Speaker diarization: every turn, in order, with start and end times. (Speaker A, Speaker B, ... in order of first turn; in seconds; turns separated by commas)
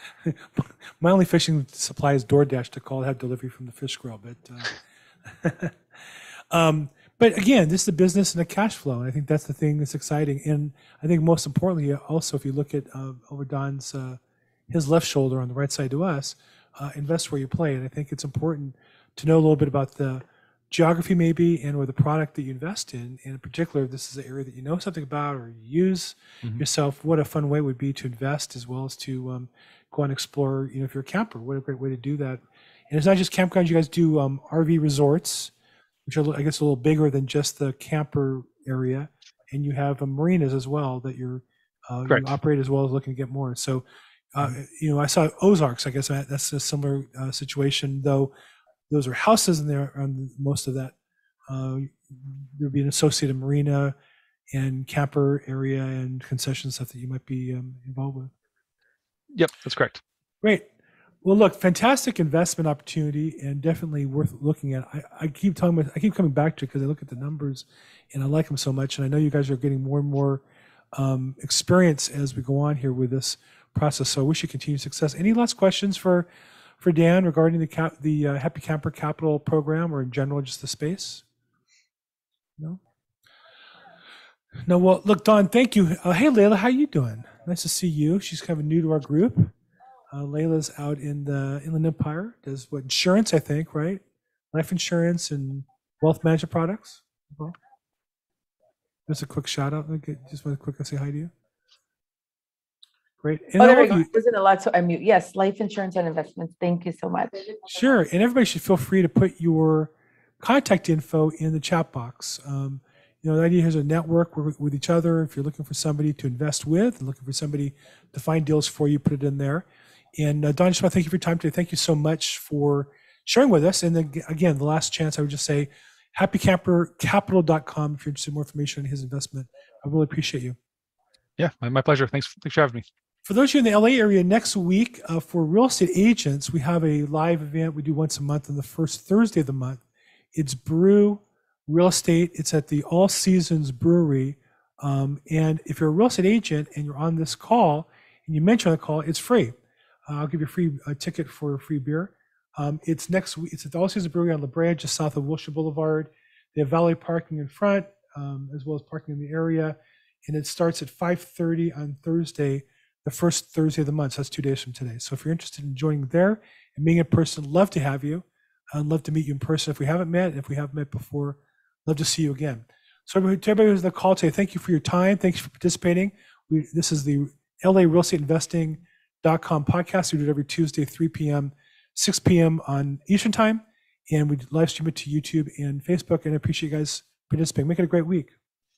Speaker A: 0.2-5.8, Speaker A: 6.5-35.5, Speaker A: 36.0-48.3, Speaker B: 42.1-42.3, Speaker A: 48.9-50.9, Speaker A: 51.5-53.9, Speaker A: 54.5-58.3, Speaker B: 59.3-60.0, Speaker A: 60.4-60.7, Speaker A: 61.2-76.3, Speaker A: 76.8-81.2, Speaker A: 84.6-89.5, Speaker A: 90.1-97.5, Speaker A: 99.1-101.3, Speaker A: 103.2-104.1, Speaker C: 103.6-107.6, Speaker A: 107.6-130.6, Speaker B: 131.4-132.8, Speaker A: 133.2-139.8, Speaker A: 140.3-149.5, Speaker A: 150.1-188.3